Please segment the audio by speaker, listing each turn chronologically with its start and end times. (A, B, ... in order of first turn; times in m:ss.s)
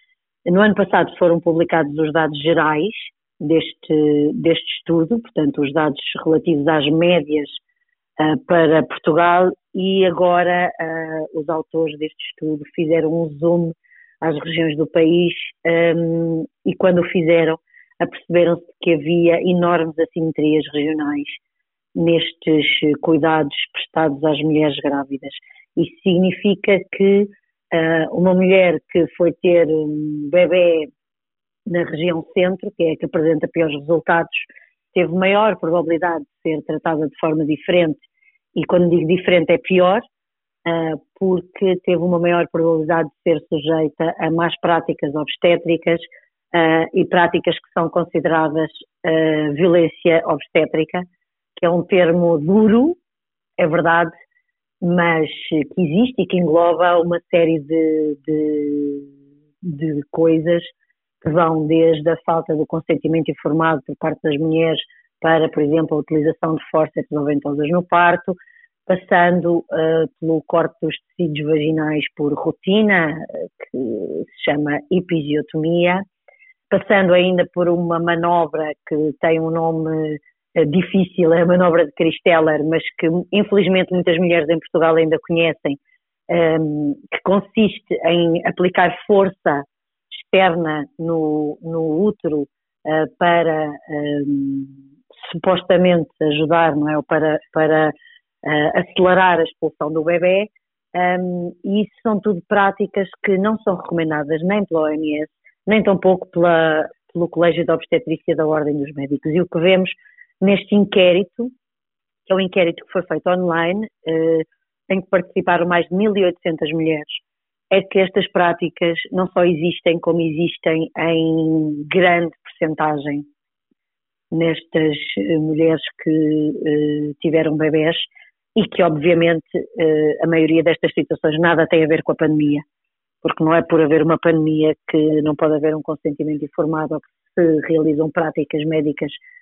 0:00.4-0:07.6 A
0:08.2-0:21.4 A
0:21.9-0:30.9 A
0:31.7-0:40.0 A
0:40.6-0:53.0 A
0:53.6-0:54.1 A
0:54.8-0:59.1 A
0:59.6-1:00.7 A
1:01.2-1:16.0 A
1:16.7-1:51.5 A
1:52.2-2:03.2 A
2:04.3-2:12.6 A
2:13.2-2:19.2 A